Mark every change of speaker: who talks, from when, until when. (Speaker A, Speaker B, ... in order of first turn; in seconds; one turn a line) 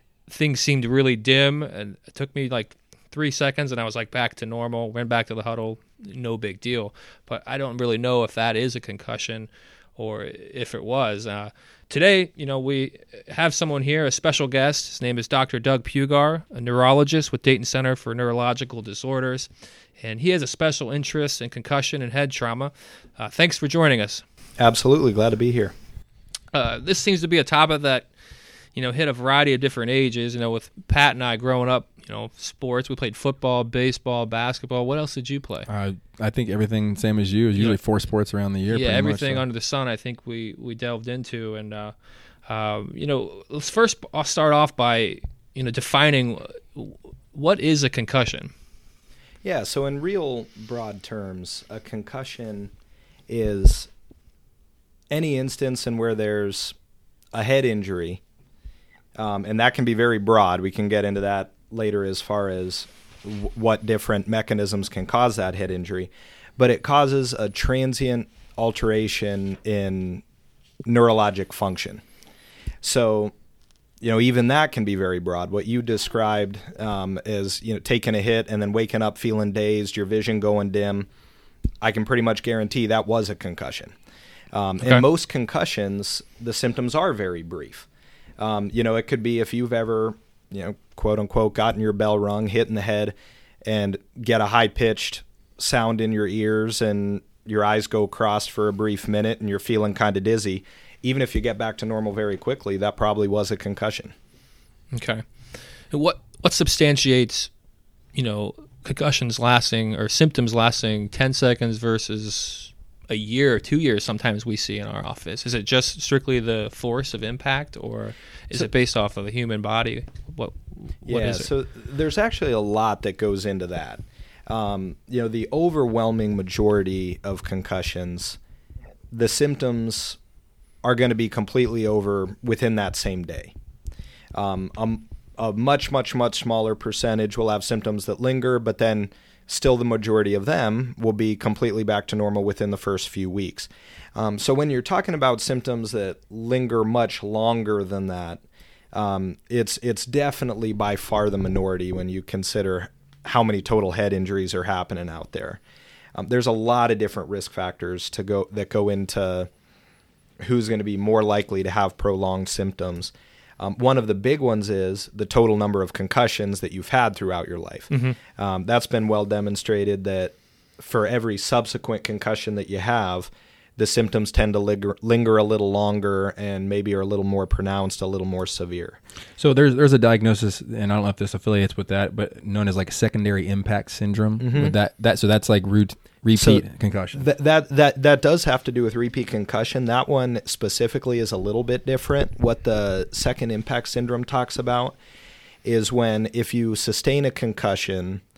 Speaker A: 0.3-24.2
Speaker B: 24.6-25.7
Speaker A: 26.5-28.1
Speaker A: 28.8-35.7
Speaker C: 35.7-39.4
Speaker A: 38.7-48.5
Speaker B: 49.4-52.7
Speaker B: 53.3-53.9
Speaker B: 55.1-56.8
Speaker B: 57.3-58.2
Speaker B: 59.2-70.2
Speaker B: 70.8-72.0
Speaker B: 72.8-73.3
Speaker B: 74.0-81.1
Speaker B: 81.8-83.9
Speaker B: 84.5-87.9
Speaker B: 88.4-104.1
Speaker A: 104.9-105.2
Speaker A: 105.9-107.5
Speaker A: 108.1-121.5
Speaker B: 121.0-128.4
Speaker B: 129.1-130.2
Speaker B: 130.8-133.5
Speaker B: 134.3-148.4
Speaker B: 148.9-155.6
Speaker B: 156.1-159.5
Speaker B: 160.4-179.0
Speaker A: 167.9-168.2
Speaker C: 179.4-187.2
Speaker B: 184.4-184.8
Speaker B: 186.3-194.9
Speaker B: 195.6-198.2